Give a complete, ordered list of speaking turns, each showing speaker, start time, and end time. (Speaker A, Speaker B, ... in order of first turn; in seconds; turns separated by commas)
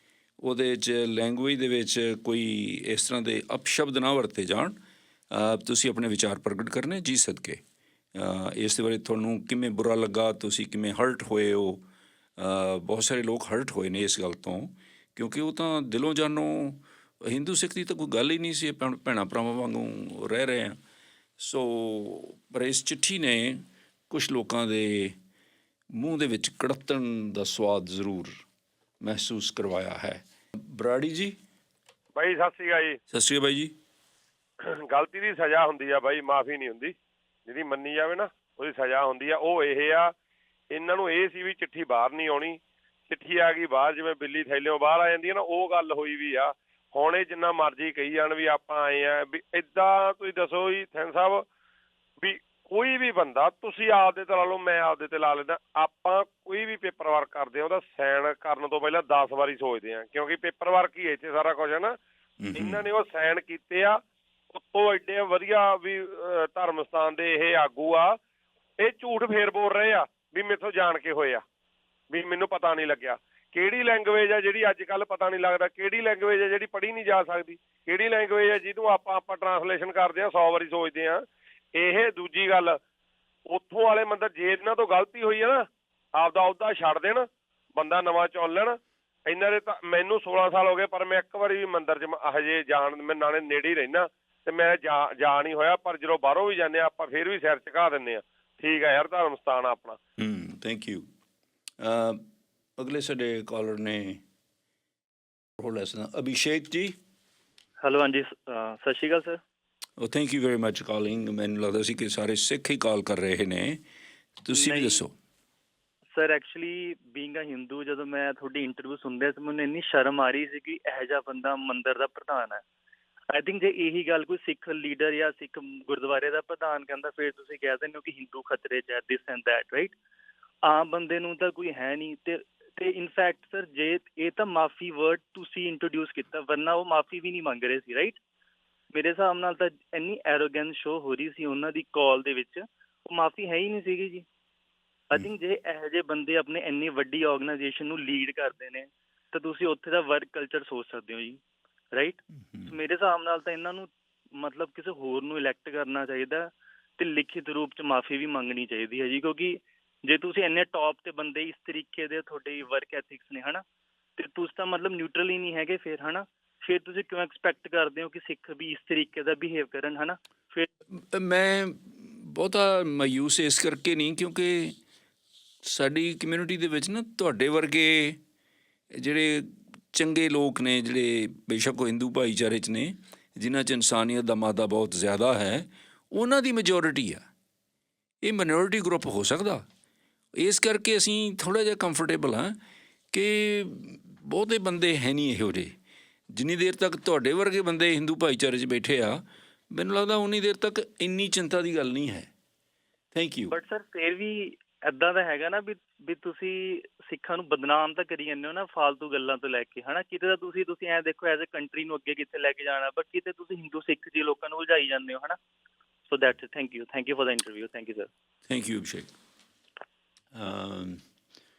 Speaker A: 0.4-4.8, Speaker A: 5.3-7.6, Speaker A: 8.1-11.8, Speaker A: 12.4-20.8, Speaker A: 21.4-25.1, Speaker A: 25.9-28.4, Speaker A: 29.0-31.4, Speaker B: 32.1-33.0, Speaker A: 33.1-33.7, Speaker B: 34.9-36.9, Speaker B: 37.5-40.1, Speaker B: 40.7-51.5, Speaker B: 52.2-62.0, Speaker A: 62.4-62.8, Speaker B: 62.5-68.2, Speaker B: 68.8-71.4, Speaker B: 72.1-82.8, Speaker B: 83.5-100.0, Speaker A: 100.2-101.0, Speaker A: 101.8-102.2, Speaker A: 102.8-104.2, Speaker A: 105.6-106.9, Speaker C: 107.8-109.4, Speaker A: 110.0-113.8, Speaker A: 114.4-115.1, Speaker C: 114.5-115.0, Speaker C: 116.1-122.6, Speaker C: 123.3-129.9, Speaker C: 130.6-138.2, Speaker C: 138.9-144.2, Speaker C: 145.1-151.4, Speaker C: 151.9-163.6, Speaker C: 164.2-170.7, Speaker A: 170.9-174.8, Speaker A: 175.6-178.2, Speaker A: 178.9-187.2, Speaker A: 188.2-189.6, Speaker A: 190.3-192.6, Speaker A: 193.1-195.7, Speaker A: 196.3-202.3, Speaker A: 203.1-203.5, Speaker C: 203.5-215.3, Speaker C: 216.1-218.1, Speaker A: 218.4-219.1, Speaker A: 220.3-221.0